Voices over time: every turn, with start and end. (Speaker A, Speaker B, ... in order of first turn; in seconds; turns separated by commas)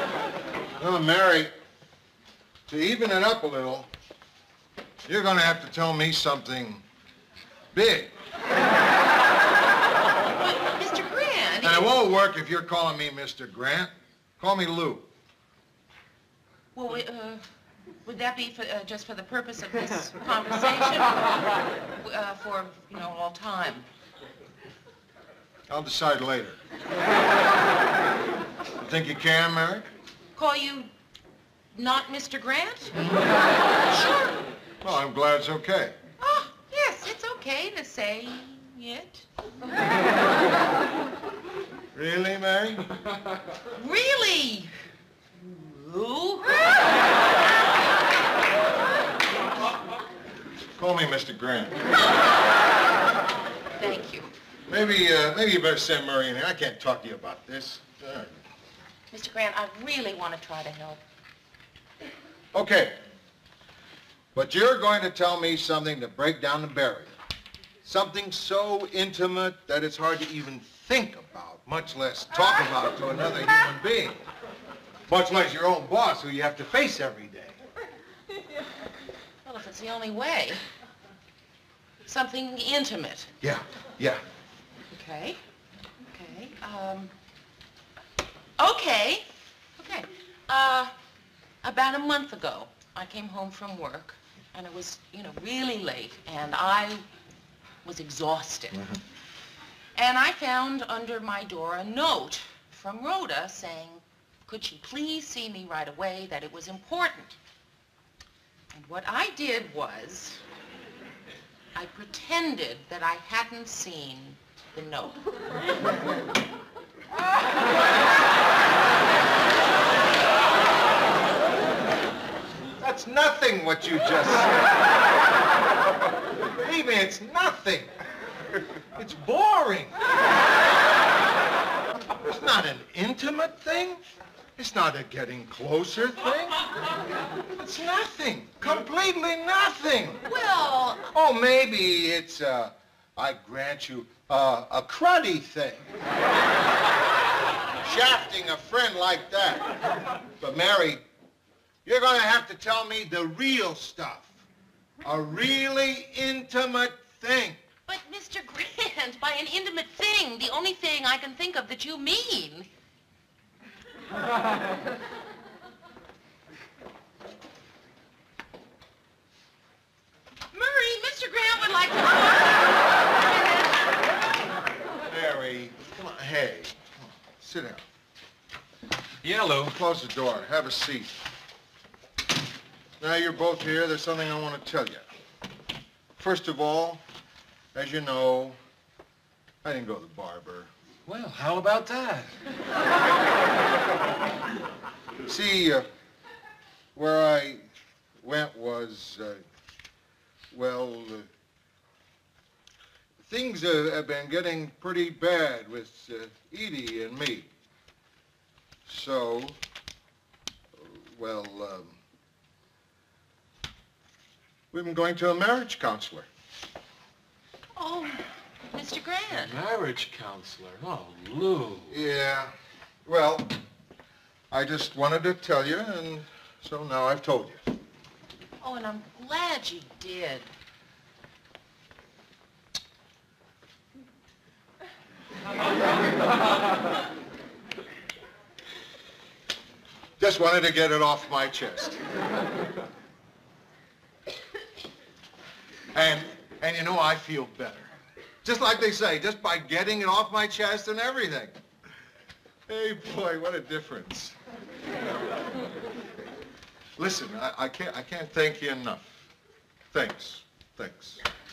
Speaker A: 0.8-1.5, Speaker A: 2.7-3.9, Speaker A: 5.0-6.8, Speaker A: 7.7-8.1, Speaker B: 10.3-11.9, Speaker A: 11.6-15.1, Speaker B: 16.7-17.4, Speaker B: 18.0-21.4, Speaker B: 22.0-23.9, Speaker A: 25.7-26.6, Speaker A: 28.8-29.8, Speaker B: 30.4-30.9, Speaker B: 31.7-33.0, Speaker A: 32.9-33.3, Speaker B: 33.9-34.4, Speaker A: 34.8-36.0, Speaker B: 36.2-39.3, Speaker A: 41.9-42.9, Speaker B: 43.7-44.7, Speaker B: 45.4-46.9, Speaker A: 50.8-51.9, Speaker B: 53.8-54.3, Speaker A: 54.7-58.4, Speaker B: 59.1-61.0, Speaker A: 62.5-63.0, Speaker A: 64.3-67.1, Speaker A: 67.8-74.2, Speaker A: 75.1-77.6, Speaker B: 79.4-80.6, Speaker B: 82.0-83.3, Speaker A: 83.4-84.2, Speaker B: 84.9-85.4, Speaker B: 86.1-87.1, Speaker B: 88.6-90.9, Speaker B: 91.6-97.0, Speaker B: 97.8-98.8, Speaker B: 99.9-107.4, Speaker B: 108.7-110.4, Speaker B: 111.7-115.2, Speaker A: 122.8-124.6, Speaker A: 126.6-127.9, Speaker A: 128.9-129.9, Speaker A: 132.2-134.0, Speaker A: 134.6-136.7, Speaker A: 137.5-140.2, Speaker B: 140.2-141.0, Speaker A: 141.0-145.9, Speaker A: 147.8-149.7, Speaker A: 150.4-151.0, Speaker A: 151.8-154.4, Speaker A: 155.0-157.6, Speaker B: 157.9-162.7, Speaker B: 170.5-173.8, Speaker A: 175.1-177.8, Speaker C: 179.2-179.8, Speaker A: 179.7-181.2, Speaker A: 183.0-185.0, Speaker A: 186.2-187.0, Speaker A: 187.7-188.6, Speaker A: 189.6-190.7, Speaker C: 191.1-192.3, Speaker A: 195.2-195.8, Speaker A: 196.9-197.6, Speaker A: 198.2-199.4, Speaker A: 200.5-201.3, Speaker A: 203.2-207.5, Speaker A: 208.8-209.6, Speaker A: 210.8-212.0, Speaker A: 214.7-216.3, Speaker B: 217.8-219.5, Speaker C: 219.3-222.0, Speaker A: 221.9-222.5, Speaker A: 223.0-223.6, Speaker A: 224.5-227.6, Speaker B: 228.6-230.5, Speaker A: 240.2-242.0, Speaker A: 245.9-247.9, Speaker A: 248.4-251.6, Speaker A: 252.7-254.3, Speaker A: 257.0-259.3, Speaker A: 259.9-261.2